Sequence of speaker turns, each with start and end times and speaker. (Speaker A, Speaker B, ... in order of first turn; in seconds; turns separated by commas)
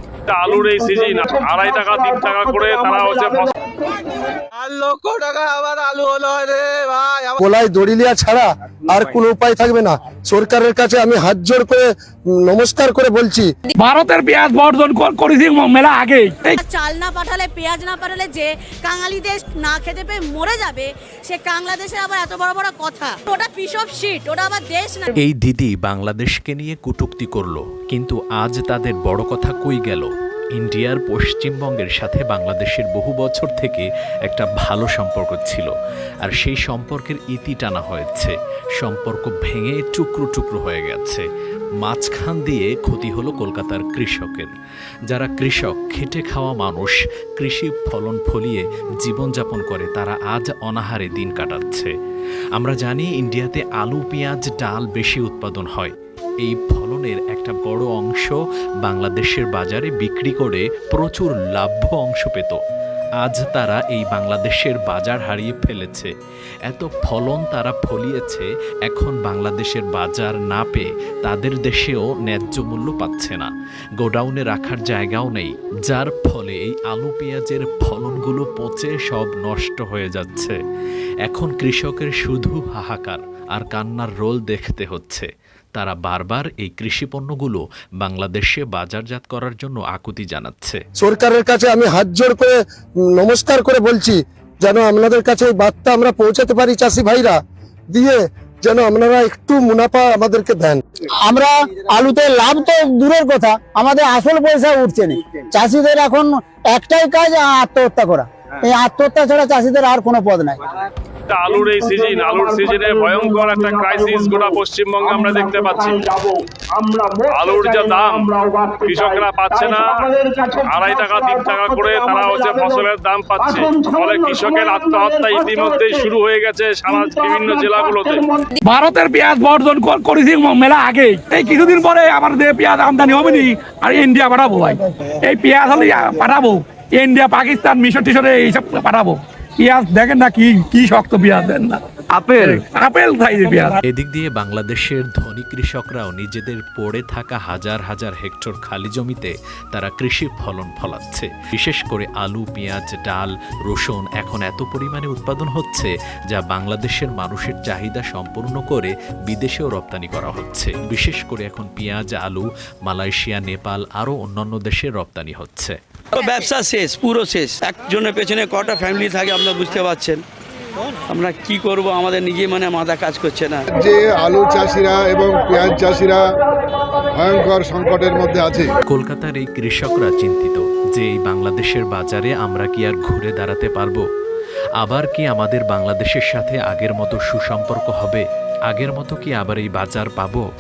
Speaker A: 0.4-4.2, Speaker B: 4.6-7.3, Speaker C: 7.4-11.8, Speaker C: 12.5-13.5, Speaker D: 13.8-16.6, Speaker E: 16.6-25.1, Speaker F: 25.2-35.7, Speaker F: 36.3-41.2, Speaker F: 41.8-44.5, Speaker F: 45.1-51.9, Speaker F: 52.6-62.6, Speaker F: 63.2-66.1, Speaker F: 66.7-80.6, Speaker F: 81.3-90.8, Speaker C: 91.0-92.5, Speaker C: 93.2-97.4, Speaker C: 97.9-100.8, Speaker G: 101.2-110.6, Speaker A: 111.4-128.5, Speaker D: 128.6-143.8, Speaker F: 143.8-165.8, Speaker H: 166.1-170.2, Speaker H: 171.1-173.6, Speaker I: 173.7-176.2, Speaker I: 177.2-178.8, Speaker F: 178.8-184.0, Speaker F: 184.8-190.4